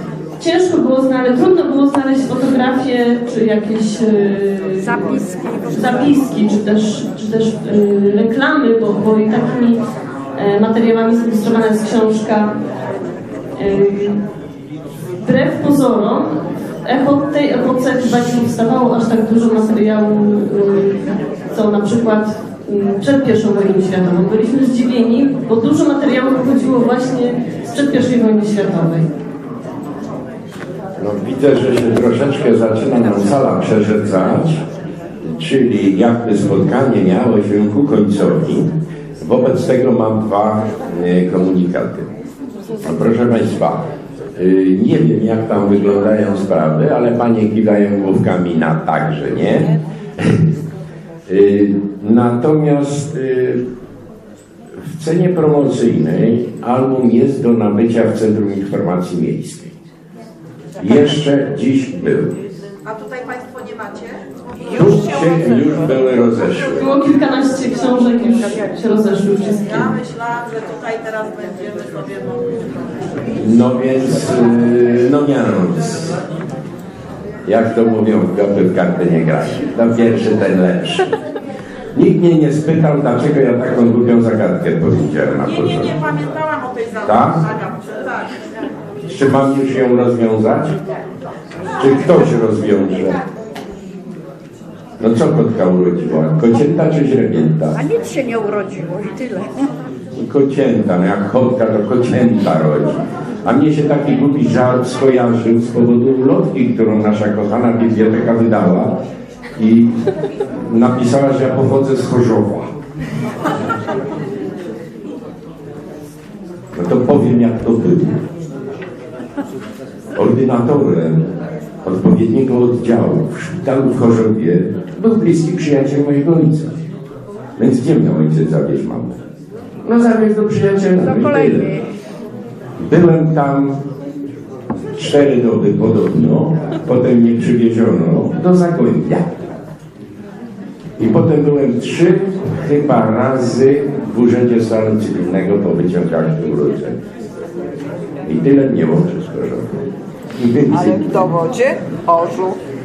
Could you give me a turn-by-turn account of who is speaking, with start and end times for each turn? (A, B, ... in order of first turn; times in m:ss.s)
0:00.4-0:09.8 A
0:04.8-0:06.4 B
0:10.4-0:12.5 A
0:13.6-0:14.2 A
0:15.2-0:29.1 A
0:31.0-0:34.6 C
0:35.2-0:42.1 C
0:42.8-0:50.4 C
0:51.3-0:53.6 C
0:54.9-0:59.8 C
1:00.8-1:02.4 C
1:02.8-1:04.8 D
1:04.6-1:06.9 E
1:04.7-1:06.9 C
1:06.6-1:09.9 A
1:09.6-1:12.8 D
1:13.3-1:16.1 C
1:17.4-1:21.1 C
1:21.9-1:26.0 C
1:25.4-1:28.4 D
1:27.0-1:27.4 C
1:29.1-1:30.8 C
1:31.8-1:33.2 C
1:35.0-1:37.8 C
1:37.8-1:39.6 B
1:40.2-1:49.0 C
1:49.6-1:50.1 C
1:50.6-1:52.7 C
1:56.7-1:58.2 C
2:00.2-2:01.3 C
2:01.8-2:06.7 C
2:07.6-2:09.2 C
2:09.8-2:11.8 C
2:11.0-2:11.8 B
2:12.8-2:13.8 C
2:14.9-2:19.5 C
2:21.0-2:27.0 C
2:28.2-2:31.3 C
2:30.7-2:32.6 E